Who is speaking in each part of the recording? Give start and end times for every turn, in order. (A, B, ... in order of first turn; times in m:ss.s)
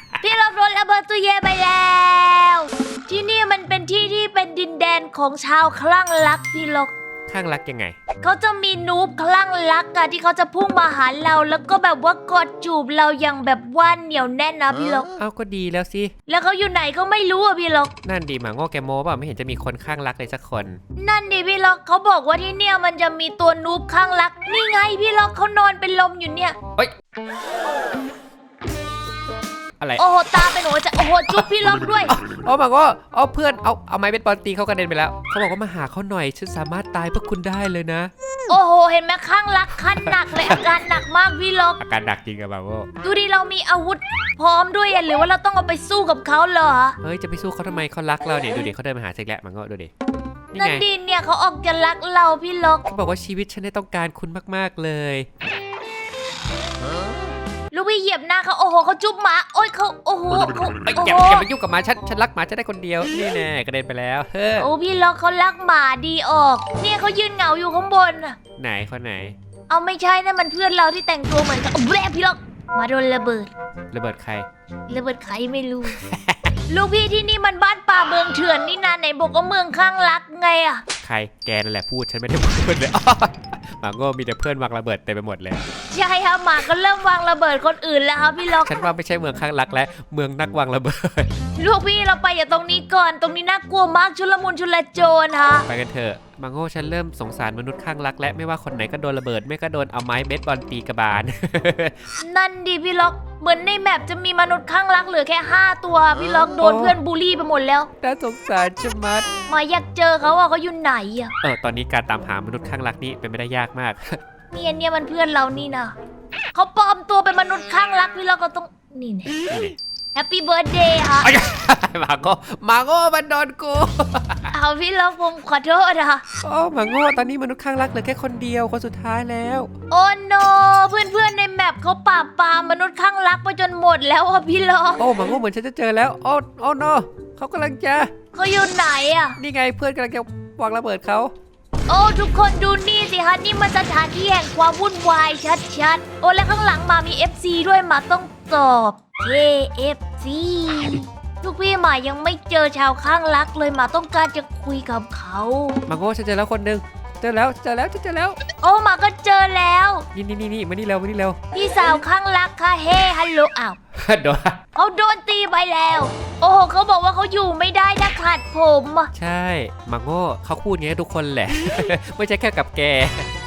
0:00.2-0:06.9 A
0:07.3-0:07.9 B
0:08.2-0:15.1 A
0:15.1-0:16.1 B
0:16.3-0:17.9 A
0:18.0-0:20.8 B
0:21.0-0:26.6 A
0:30.0-0:32.2 A
0:32.2-0:38.1 B
0:38.5-0:41.8 A
0:39.9-0:40.6 B
0:41.8-0:42.9 B
0:43.0-0:47.0 A
0:47.0-0:49.9 B
0:50.5-0:50.8 B
0:50.5-0:52.8 A
0:52.9-0:55.3 B
0:57.7-1:01.4 A
1:00.9-1:04.7 B
1:04.6-1:08.4 A
1:08.6-1:09.4 B
1:09.7-1:13.5 A
1:13.9-1:14.5 B
1:14.9-1:16.0 A
1:15.9-1:16.5 B
1:16.7-1:20.8 A
1:21.0-1:25.6 B
1:25.9-1:28.7 A
1:28.6-1:31.3 B
1:31.6-1:35.7 A
1:35.7-1:42.0 B
1:42.2-1:47.9 A
1:46.6-1:47.0 B
1:48.0-1:49.3 B
1:49.5-1:51.3 A
1:51.4-1:54.2 B
1:54.5-1:55.9 A
1:56.5-1:59.4 A
1:59.5-1:59.8 B
2:00.1-2:01.3 A
2:01.2-2:04.5 B
2:04.5-2:06.2 A
2:06.4-2:09.7 B
2:09.9-2:15.1 A
2:15.0-2:18.1 B
2:18.3-2:19.4 A
2:19.4-2:21.3 B
2:21.9-2:35.8 A
2:35.9-2:38.4 B
2:38.6-2:40.1 A
2:40.1-2:41.4 B
2:41.5-2:43.8 A
2:43.9-2:44.6 B
2:44.7-2:49.1 A
2:49.1-2:53.3 B